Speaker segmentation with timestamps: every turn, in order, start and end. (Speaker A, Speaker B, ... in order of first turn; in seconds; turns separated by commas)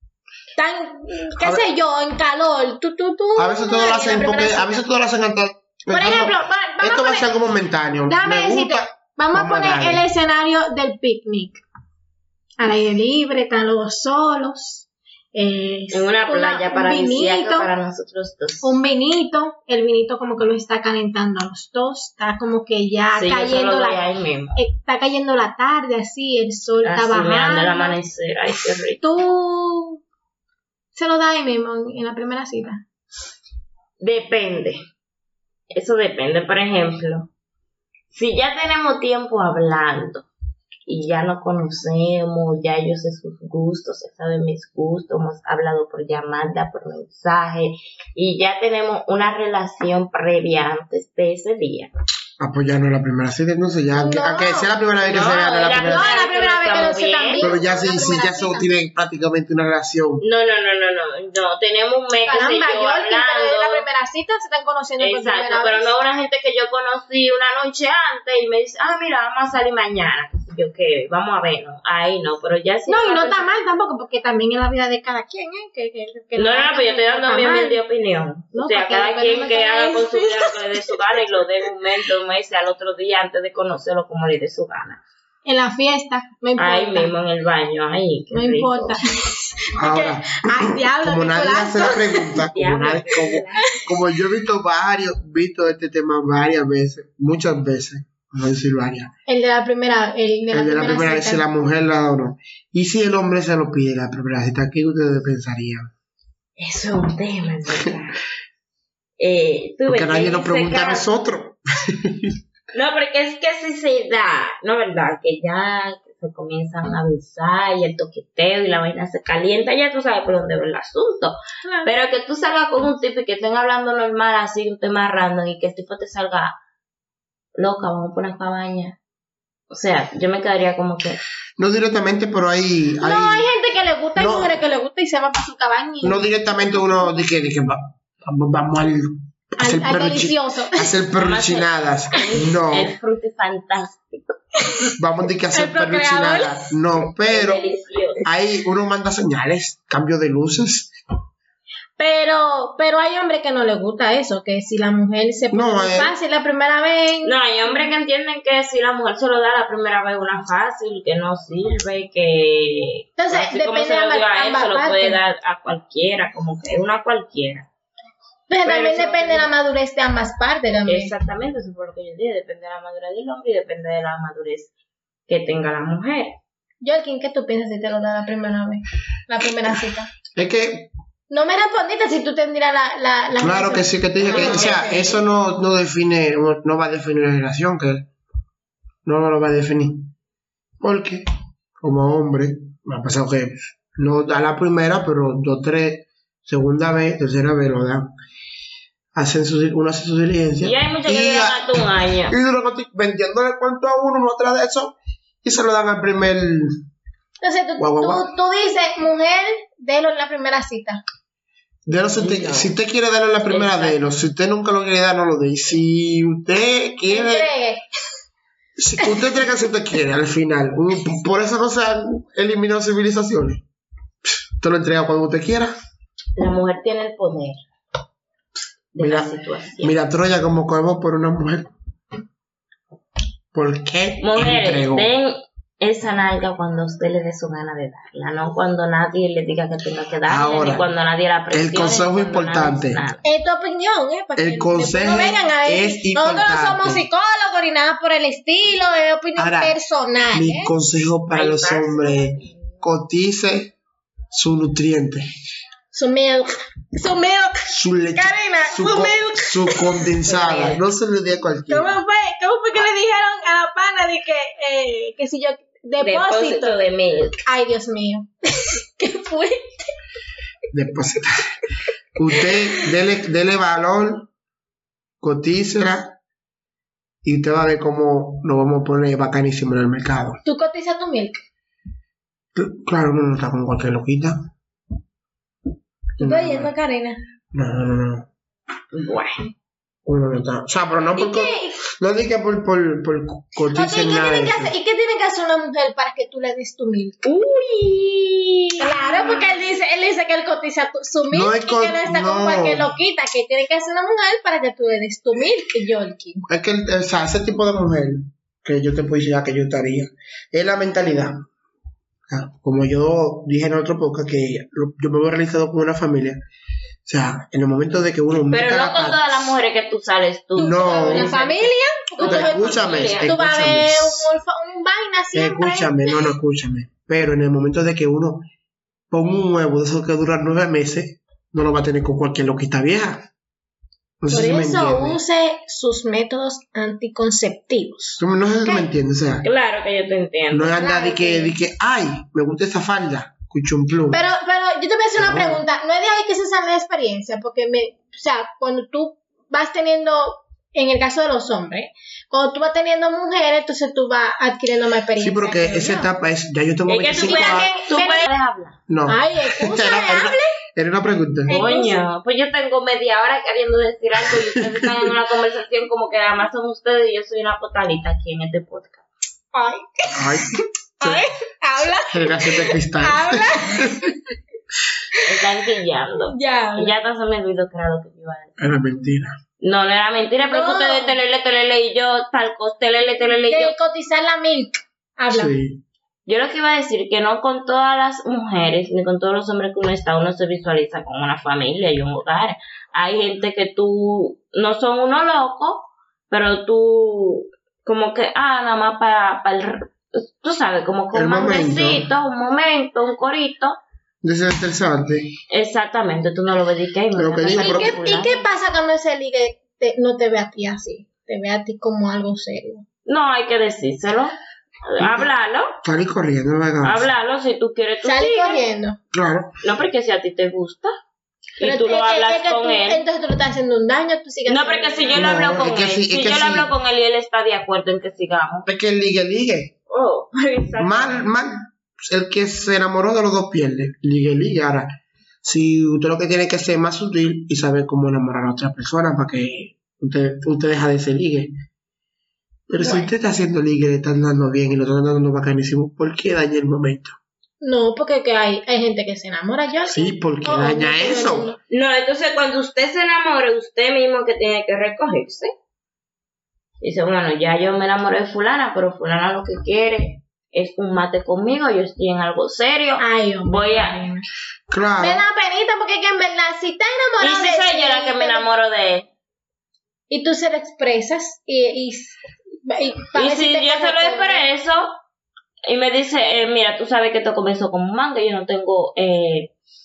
Speaker A: 0.6-4.8, Speaker B: 1.4-1.6, Speaker B: 3.4-10.0, Speaker A: 5.9-7.3, Speaker A: 8.1-11.6, Speaker A: 12.6-17.7, Speaker C: 15.9-18.8, Speaker A: 18.6-24.0, Speaker C: 23.1-24.6, Speaker A: 24.6-28.0, Speaker C: 26.8-29.0, Speaker A: 29.0-30.0, Speaker A: 30.9-32.8, Speaker C: 34.0-34.8, Speaker C: 35.7-37.3, Speaker C: 38.1-40.3, Speaker C: 40.9-51.9, Speaker B: 52.4-56.1, Speaker A: 54.0-54.7, Speaker C: 55.1-57.5, Speaker A: 55.8-58.7, Speaker B: 57.4-60.2, Speaker C: 60.2-63.9, Speaker A: 62.3-65.9, Speaker C: 65.0-73.5, Speaker A: 72.9-77.8, Speaker C: 76.4-85.0, Speaker A: 78.5-81.0, Speaker A: 85.5-87.1, Speaker C: 86.6-89.0, Speaker A: 88.3-92.4, Speaker B: 89.8-99.1, Speaker C: 92.5-93.8, Speaker A: 99.3-101.5, Speaker B: 100.5-105.9, Speaker C: 106.6-108.2, Speaker C: 109.2-111.1, Speaker B: 109.9-112.4, Speaker C: 112.7-126.6, Speaker A: 121.6-121.9, Speaker C: 127.6-129.0, Speaker C: 129.7-131.2, Speaker B: 131.6-133.5, Speaker A: 133.0-137.1, Speaker B: 134.2-134.6, Speaker B: 136.0-142.9, Speaker A: 139.6-140.9, Speaker C: 141.2-144.4, Speaker B: 145.0-147.6, Speaker A: 145.5-146.8, Speaker C: 147.3-148.3, Speaker B: 148.2-150.9, Speaker A: 152.0-157.3, Speaker B: 155.5-156.1, Speaker C: 157.2-167.7, Speaker A: 163.2-165.2, Speaker A: 168.5-171.1, Speaker C: 168.7-169.5, Speaker C: 170.9-174.7, Speaker C: 175.3-176.4, Speaker A: 176.8-180.1, Speaker B: 180.4-180.9, Speaker A: 181.3-185.0, Speaker B: 183.4-188.1, Speaker C: 184.2-185.2, Speaker B: 189.1-190.1, Speaker B: 190.8-191.2, Speaker B: 191.8-198.1, Speaker B: 199.2-206.8, Speaker C: 200.6-202.4, Speaker A: 207.4-211.0, Speaker B: 207.8-208.3, Speaker B: 211.9-217.5, Speaker C: 212.2-212.7, Speaker C: 213.5-214.0, Speaker A: 217.1-217.8, Speaker B: 218.8-223.6, Speaker B: 224.3-225.7, Speaker C: 226.4-227.6, Speaker C: 228.9-229.9, Speaker B: 229.0-231.7, Speaker B: 233.5-235.1, Speaker C: 234.2-243.2, Speaker B: 240.3-240.8, Speaker B: 241.5-243.0, Speaker A: 243.2-250.7, Speaker B: 244.4-247.1, Speaker B: 249.4-249.8, Speaker B: 250.3-253.8, Speaker C: 251.3-252.6, Speaker B: 254.3-255.3, Speaker A: 255.9-260.1, Speaker B: 257.7-262.0, Speaker C: 260.2-260.8, Speaker A: 261.7-266.8, Speaker C: 266.0-267.4, Speaker A: 267.4-269.9, Speaker B: 270.7-271.5, Speaker B: 272.2-274.3, Speaker A: 272.3-272.9, Speaker B: 275.2-276.2, Speaker B: 277.2-280.4, Speaker A: 280.4-281.4, Speaker B: 282.6-284.5, Speaker B: 286.2-286.7, Speaker A: 286.2-287.2, Speaker B: 287.5-288.3, Speaker C: 288.9-289.5, Speaker B: 290.1-294.7, Speaker A: 291.2-291.8, Speaker A: 293.7-297.2, Speaker C: 297.2-299.4, Speaker A: 298.8-306.4, Speaker B: 301.3-302.9, Speaker B: 306.5-311.4, Speaker B: 312.3-316.4, Speaker B: 317.1-319.5, Speaker C: 318.5-323.4, Speaker B: 320.6-321.3, Speaker A: 320.6-326.4, Speaker B: 322.2-324.3, Speaker B: 325.3-328.4, Speaker B: 329.1-333.3, Speaker B: 334.2-335.2, Speaker A: 334.3-338.9, Speaker B: 338.2-339.4, Speaker C: 339.4-340.8, Speaker B: 340.5-344.2, Speaker A: 340.8-341.6, Speaker A: 344.1-356.1, Speaker B: 345.2-345.6, Speaker B: 355.2-357.7, Speaker C: 356.9-358.8, Speaker A: 357.1-358.3, Speaker B: 358.9-361.5, Speaker A: 359.1-360.6, Speaker A: 361.5-362.0, Speaker C: 361.5-369.1, Speaker B: 364.3-365.1, Speaker A: 369.5-374.1, Speaker B: 370.1-371.3, Speaker B: 372.1-374.1, Speaker C: 375.2-378.8, Speaker A: 376.3-376.9, Speaker B: 378.6-379.4, Speaker C: 379.6-383.7, Speaker A: 380.5-381.2, Speaker A: 383.5-385.5, Speaker B: 385.3-385.8, Speaker C: 386.3-403.8, Speaker B: 401.1-402.1, Speaker B: 404.2-405.3, Speaker C: 405.5-408.5, Speaker B: 407.1-408.0, Speaker A: 407.5-412.9, Speaker C: 413.1-415.8, Speaker B: 415.0-415.3, Speaker B: 415.8-417.1, Speaker C: 416.8-418.6, Speaker A: 418.0-419.0, Speaker B: 419.1-419.6, Speaker C: 419.6-421.0, Speaker C: 421.6-423.0, Speaker A: 421.6-425.3, Speaker C: 424.5-428.7, Speaker B: 425.1-426.7, Speaker B: 428.7-429.7, Speaker C: 429.9-431.3, Speaker B: 430.8-441.5, Speaker B: 442.7-447.1, Speaker A: 442.8-443.1, Speaker A: 447.6-451.6, Speaker B: 449.9-451.5, Speaker C: 451.7-455.5, Speaker C: 456.8-464.1, Speaker A: 463.0-464.3, Speaker B: 464.7-465.2, Speaker A: 465.0-468.5, Speaker C: 467.2-469.1, Speaker A: 470.1-474.5, Speaker C: 473.2-475.0, Speaker C: 475.7-479.5